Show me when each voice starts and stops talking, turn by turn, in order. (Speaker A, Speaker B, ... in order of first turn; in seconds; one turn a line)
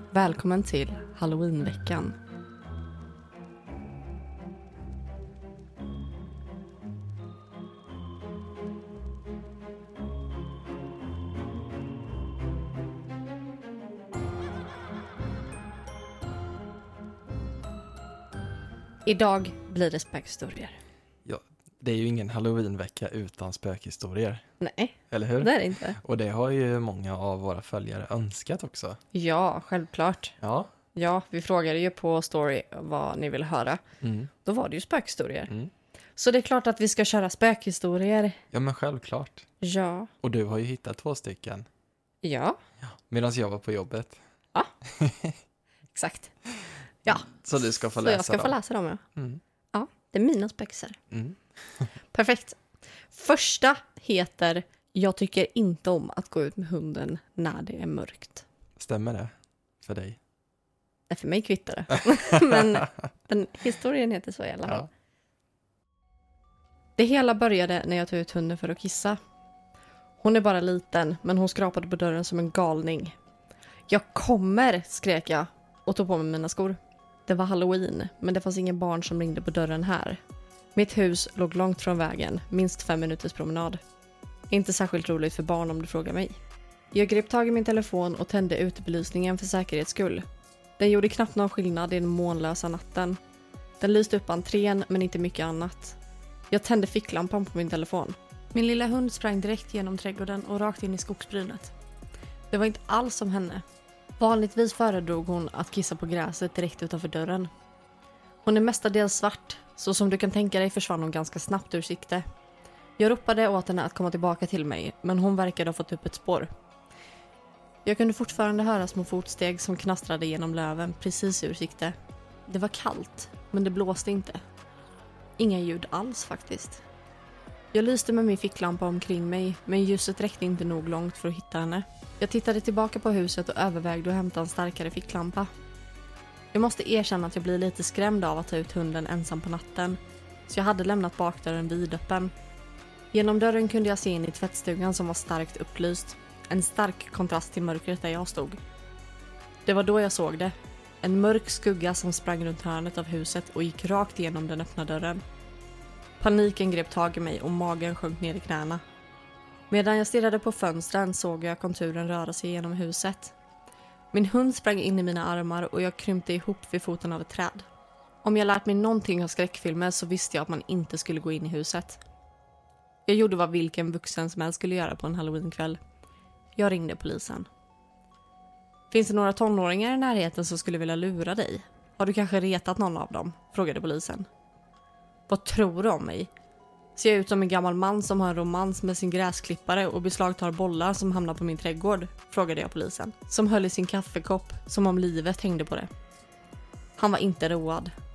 Speaker A: 0.1-2.1
Speaker A: 19.0-20.8
Speaker B: 21.2-24.4
Speaker A: 24.6-26.0
Speaker B: 25.1-29.0
Speaker A: 29.1-30.4
Speaker B: 30.4-30.7
Speaker A: 30.9-33.8
Speaker B: 34.0-34.3
Speaker A: 34.4-35.5
Speaker A: 36.1-38.4
Speaker B: 38.5-39.4
Speaker A: 39.6-40.1
Speaker B: 40.2-41.6
Speaker A: 42.2-42.6
Speaker B: 42.8-44.2
Speaker B: 44.9-45.4
Speaker A: 45.9-46.3
Speaker A: 47.0-49.0
Speaker B: 47.1-48.6
Speaker B: 49.1-49.4
Speaker A: 49.7-51.0
Speaker B: 51.1-51.9
Speaker A: 52.1-52.6
Speaker A: 53.1-58.4
Speaker B: 58.8-59.3
Speaker B: 59.8-60.2
Speaker A: 61.1-64.9
Speaker B: 62.3-62.8
Speaker A: 67.0-69.2
Speaker A: 70.2-73.2
Speaker A: 73.9-80.2
Speaker A: 80.7-83.8
Speaker A: 84.5-86.3
Speaker A: 86.9-90.2
Speaker A: 90.8-93.2
Speaker A: 93.8-96.0
Speaker A: 96.5-101.7
Speaker A: 102.5-103.6
Speaker A: 104.2-107.5
Speaker A: 108.4-112.2
Speaker A: 113.0-116.5
Speaker A: 117.8-121.9
Speaker A: 122.5-124.4
Speaker A: 125.4-126.8
Speaker A: 127.7-135.5
Speaker A: 136.5-142.3
Speaker A: 143.1-148.6
Speaker A: 149.7-155.2
Speaker A: 156.2-158.8
Speaker A: 159.7-163.3
Speaker A: 164.1-167.7
Speaker A: 168.2-172.0
Speaker A: 173.1-175.8
Speaker A: 176.6-177.5
Speaker A: 178.9-184.3
Speaker A: 185.3-186.3
Speaker A: 186.9-195.9
Speaker A: 197.0-197.9